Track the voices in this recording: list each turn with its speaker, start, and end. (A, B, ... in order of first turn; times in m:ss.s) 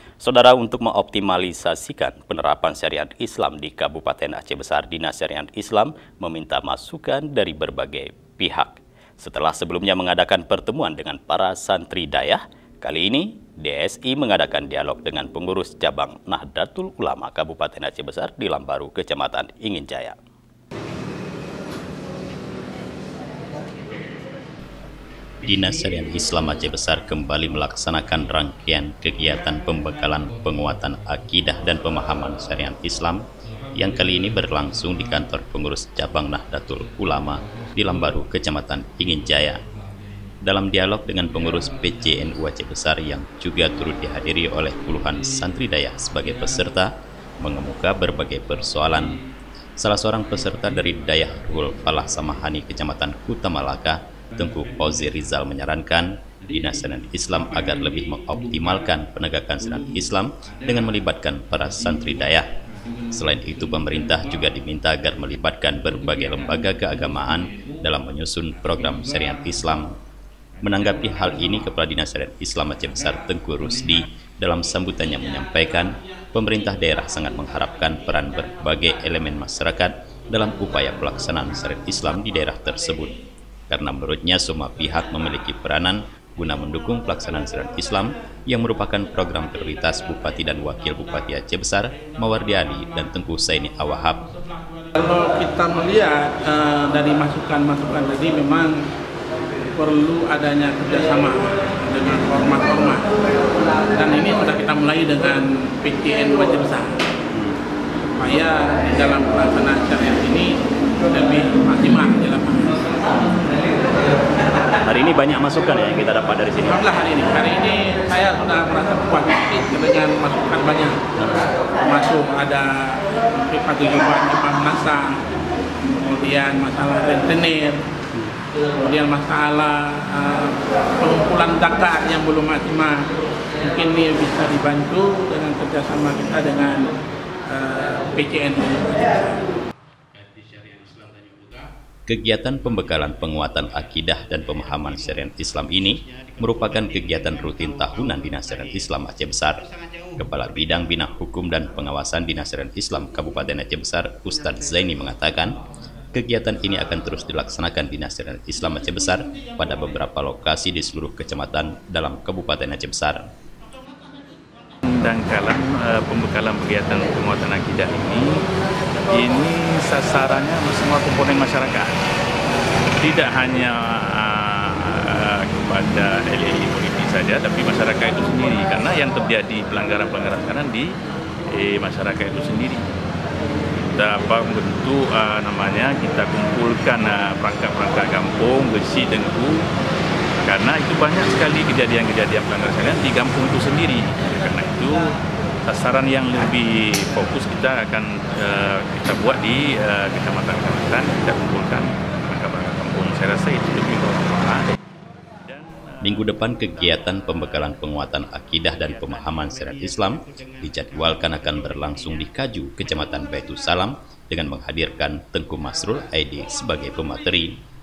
0:00.2-0:20.2 A
0:25.4-0:33.2 A
0:33.7-0:39.6 A
0:40.4-0:49.2 A
0:49.8-1:02.4 A
1:03.1-1:09.9 A
1:10.6-1:23.2 A
1:23.7-1:34.2 A
1:34.9-1:38.7 B
1:39.7-1:43.1 B
1:43.9-1:46.9 B
1:48.2-1:50.5 B
1:51.1-1:53.1 B
1:54.7-1:56.8 A
1:56.6-2:01.0 B
2:01.2-2:01.4 A
2:01.7-2:05.2 B
2:05.8-2:07.8 B
2:08.5-2:13.0 B
2:13.6-2:16.9 B
2:17.5-2:19.4 B
2:22.1-2:29.6 A
2:30.2-2:35.6 A
2:36.1-2:43.2 A
2:44.8-2:48.4 C
2:49.0-2:52.0 C
2:53.0-3:00.9 C
3:01.5-3:02.8 C
3:03.9-3:09.6 C
3:10.4-3:15.1 C
3:15.6-3:24.7 C
3:25.5-3:26.4 C
3:26.0-3:37.5 A